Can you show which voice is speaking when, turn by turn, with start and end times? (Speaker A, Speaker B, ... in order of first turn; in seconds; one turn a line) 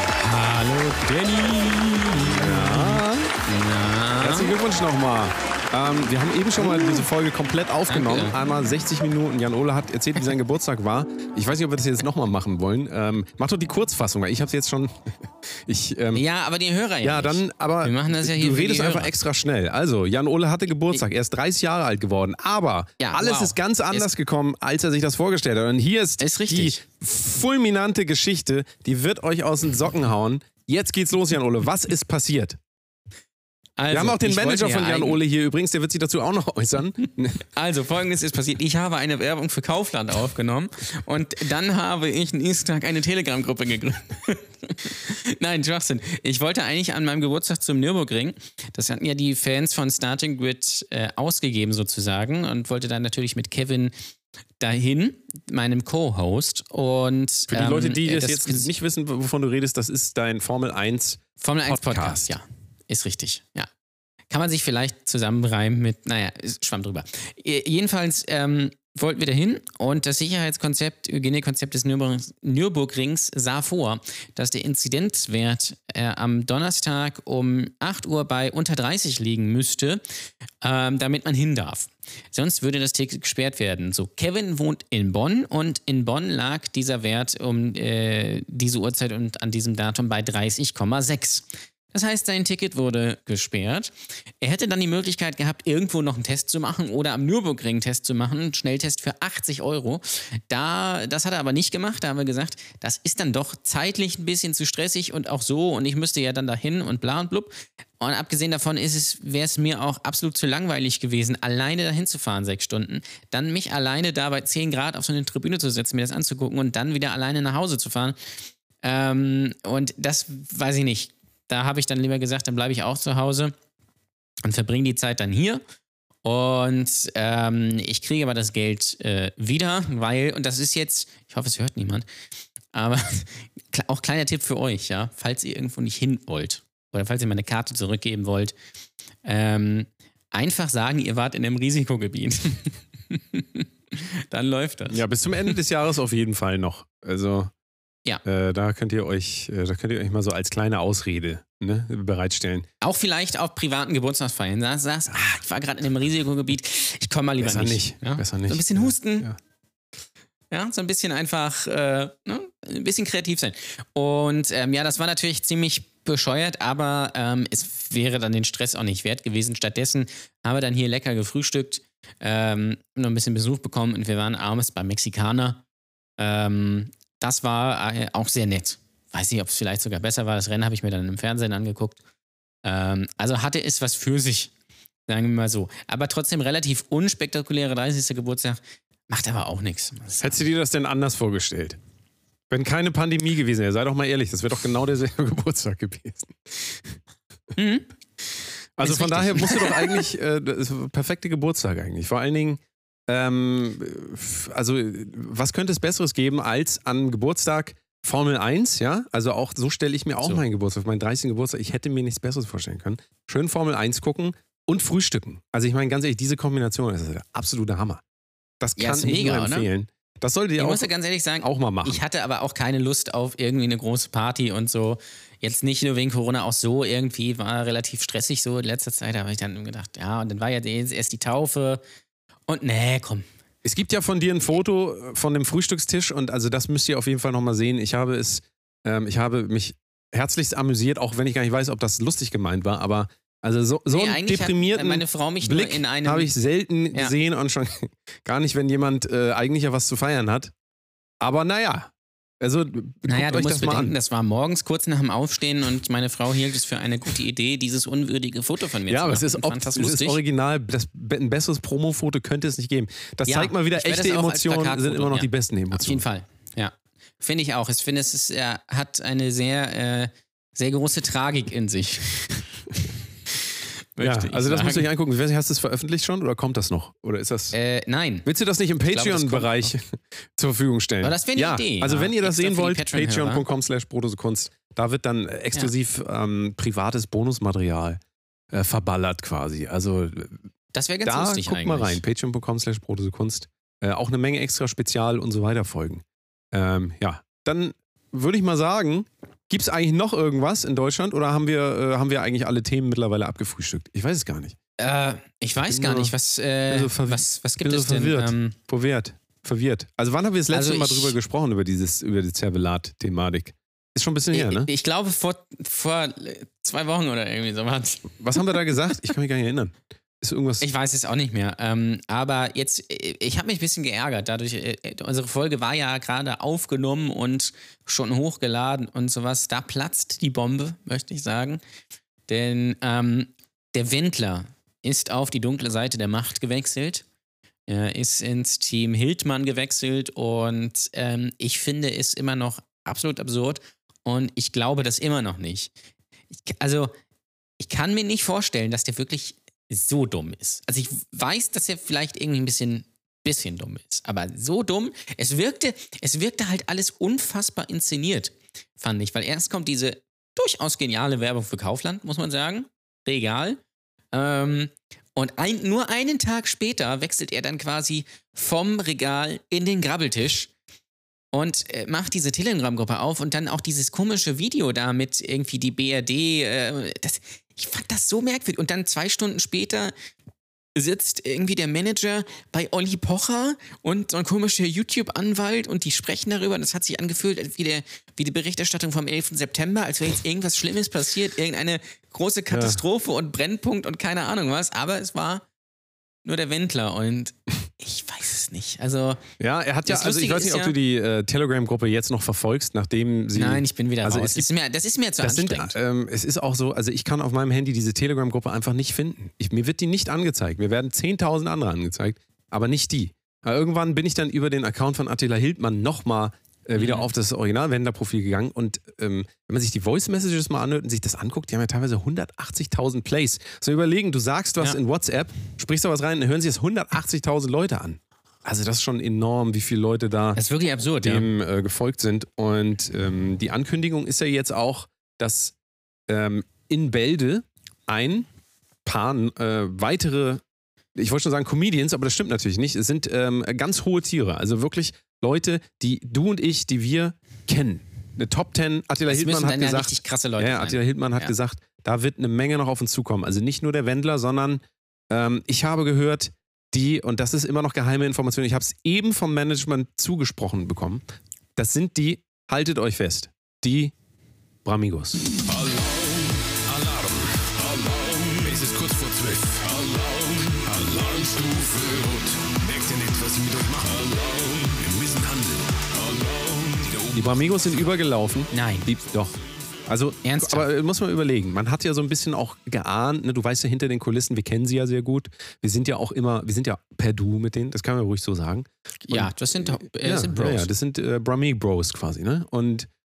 Speaker A: 0.2-4.5
Speaker B: 2.3-3.3
Speaker B: 4.2-16.2
Speaker A: 6.6-7.0
Speaker A: 7.9-8.3
Speaker A: 16.1-19.1
Speaker B: 17.0-32.6
Speaker A: 23.0-24.1
Speaker A: 26.2-26.8
Speaker A: 33.8-35.2
Speaker B: 33.9-37.4
Speaker A: 37.5-53.9
Speaker A: 54.6-58.7
Speaker B: 57.5-62.3
Speaker A: 61.4-63.7
Speaker A: 64.3-80.0
Speaker A: 80.6-118.2
Speaker A: 118.8-123.5
Speaker A: 124.4-125.6
Speaker A: 126.2-132.1
Speaker A: 132.7-138.5
Speaker A: 139.2-145.0
Speaker B: 144.9-147.5
Speaker B: 148.2-152.7
Speaker A: 152.8-159.3
Speaker B: 157.4-159.4
Speaker A: 160.5-175.6
Speaker A: 176.2-182.0
Speaker A: 182.6-184.5
Speaker A: 185.1-190.4
Speaker B: 190.2-191.8
Speaker B: 192.5-197.0
Speaker A: 197.5-197.9
Speaker B: 198.8-218.0
Speaker A: 198.8-200.0
Speaker B: 218.6-220.9
Speaker A: 218.8-219.7
Speaker A: 220.6-231.8
Speaker B: 221.4-222.0
Speaker A: 232.5-233.3
Speaker B: 233.6-250.5
Speaker A: 243.9-246.3
Speaker B: 251.2-253.9
Speaker A: 253.1-260.2
Speaker B: 258.9-266.0
Speaker A: 263.2-272.4
Speaker A: 273.9-274.9
Speaker B: 274.0-277.5
Speaker A: 277.5-278.3
Speaker B: 278.2-288.0
Speaker A: 278.9-279.7
Speaker A: 281.0-283.4
Speaker B: 288.5-290.4
Speaker A: 290.7-292.0
Speaker B: 291.0-304.6
Speaker A: 304.8-308.5
Speaker B: 305.7-306.1
Speaker B: 306.7-314.7
Speaker A: 310.5-311.1
Speaker A: 314.3-318.8
Speaker B: 318.2-320.6
Speaker A: 320.6-331.6
Speaker A: 332.3-337.0
Speaker A: 337.7-345.7
Speaker A: 346.3-346.9
Speaker A: 347.6-363.6
Speaker A: 364.1-370.5
Speaker A: 371.3-379.9
Speaker A: 380.8-395.4
Speaker B: 392.5-392.8
Speaker A: 396.2-399.2
Speaker B: 399.4-404.5
Speaker A: 399.8-400.8
Speaker A: 403.3-405.8
Speaker B: 405.2-430.4
Speaker A: 416.7-417.1
Speaker A: 430.4-431.3
Speaker B: 431.0-435.5
Speaker B: 436.1-438.3
Speaker B: 438.8-440.4
Speaker B: 440.9-461.0
Speaker A: 449.1-451.3
Speaker B: 461.6-463.9
Speaker B: 464.6-465.2
Speaker C: 465.5-465.9
Speaker C: 466.7-477.4
Speaker B: 477.1-479.3
Speaker A: 478.5-478.9
Speaker B: 479.9-492.9
Speaker A: 480.2-480.7
Speaker A: 489.1-490.7